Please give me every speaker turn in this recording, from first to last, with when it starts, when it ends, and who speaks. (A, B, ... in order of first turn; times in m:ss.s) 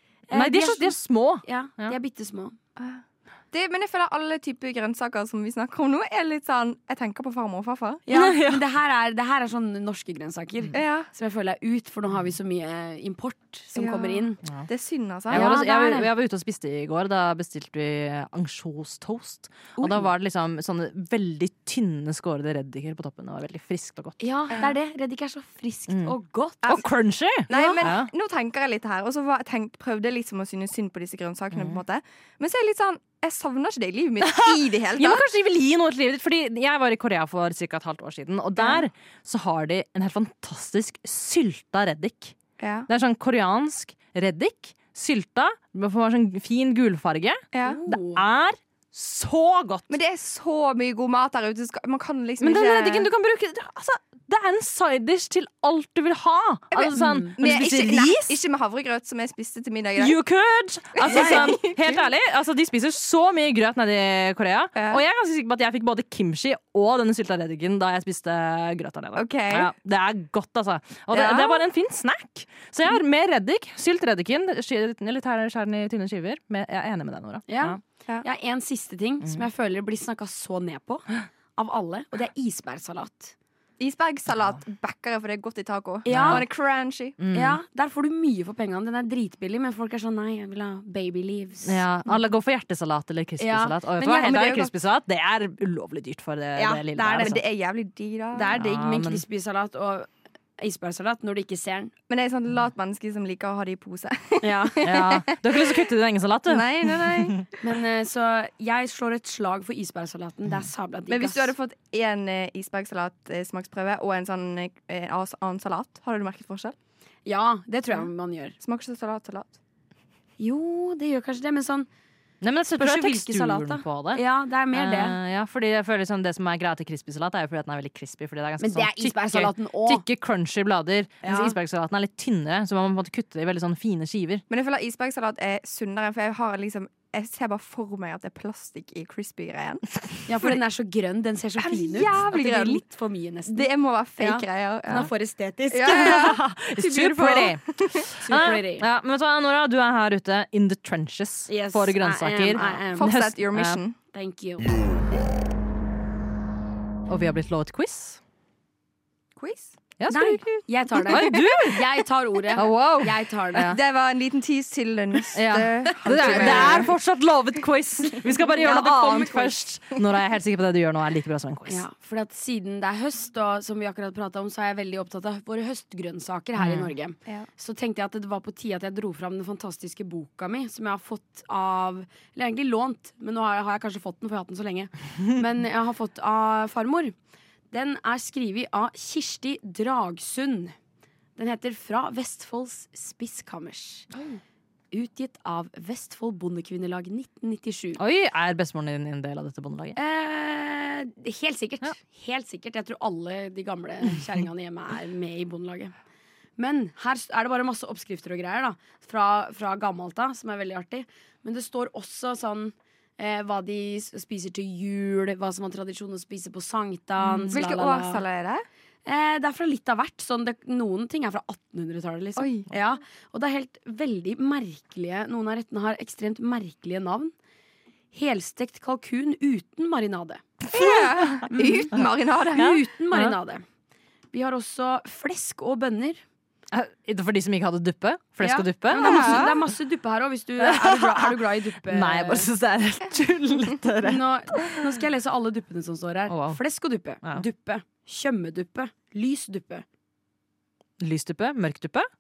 0:00.3-0:02.6 A
0:00.3-0:02.0 B
0:02.8-0:08.0 C
0:08.1-0:14.4 A
0:08.1-0:08.6 B
0:10.7-0:11.1 C
0:13.7-0:15.6 C
0:15.3-0:24.5 B
0:15.3-0:16.1 A
0:19.8-0:20.0 A
0:24.2-0:26.8 A
0:25.9-0:26.1 B
0:26.6-0:28.1 B
0:27.5-0:35.2 C
0:27.5-0:27.8 A
0:31.5-0:31.8 B
0:34.2-0:42.4 B
0:38.6-0:38.9 C
0:42.6-0:42.9 C
0:42.9-0:50.0 B
0:47.5-0:47.8 C
0:47.6-0:48.2 A
0:49.9-0:53.1 C
0:52.4-0:58.3 B
0:56.7-1:00.2 C
0:56.9-0:57.3 A
1:00.0-1:17.8 B
1:01.0-1:02.0 C
1:01.1-1:01.5 A
1:04.7-1:05.0 C
1:09.1-1:09.7 C
1:11.1-1:11.6 C
1:17.5-1:23.3 A
1:23.8-1:27.2 C
1:26.0-1:26.4 A
1:26.1-1:26.4 B
1:27.2-1:27.6 B
1:27.3-1:31.8 A
1:31.6-1:37.4 B
1:33.4-1:33.9 A
1:34.0-1:34.7 C
1:36.6-1:38.6 C
1:38.3-1:41.9 A
1:38.6-1:39.2 B
1:42.1-1:45.9 C
1:44.4-1:44.8 A
1:44.8-1:47.4 B
1:46.5-1:47.4 C
1:47.6-1:51.5 A
1:51.1-1:56.7 C
1:57.2-1:58.5 A
1:58.6-1:59.6 C
2:00.4-2:01.9 A
2:02.4-2:14.4 B
2:02.8-2:05.2 A
2:08.6-2:10.0 A
2:11.2-2:11.5 A
2:14.5-2:19.8 C
2:20.3-2:23.6 A
2:21.6-2:22.8 C
2:23.5-2:25.1 C
2:24.2-2:26.3 A
2:25.7-2:28.1 C
2:25.9-2:33.8 B
2:28.2-2:28.8 A
2:31.5-2:33.1 A
2:33.0-2:34.0 C
2:34.1-2:34.7 A
2:37.1-2:38.2 B
2:39.4-2:39.8 C
2:40.0-2:40.5 B
2:40.1-2:43.7 A
2:41.1-2:41.9 B
2:41.1-2:41.6 C
2:42.6-2:43.8 B
2:43.6-2:46.9 C
2:45.3-2:51.8 B
2:46.0-2:46.9 A
2:48.6-2:49.4 C
2:48.6-2:49.5 A
2:51.7-3:07.1 A
2:56.6-2:56.9 B
3:07.7-3:10.8 A
3:11.4-3:14.1 A
3:14.9-3:18.0 A
3:18.0-3:20.0 B
3:20.0-3:25.9 A
3:26.6-3:38.2 A
3:37.5-3:38.6 C
3:39.0-3:47.3 A
3:42.4-3:42.7 C
3:48.1-3:50.4 A
3:50.7-3:52.8 C
3:51.5-3:52.0 A
3:52.5-3:53.6 A
3:52.6-3:53.4 B
3:54.3-3:56.2 A
3:56.7-3:59.5 B
3:58.4-4:02.5 A
3:58.9-3:59.5 C
4:00.6-4:04.8 B
4:04.0-4:09.8 A
4:06.3-4:06.6 B
4:11.0-4:12.1 B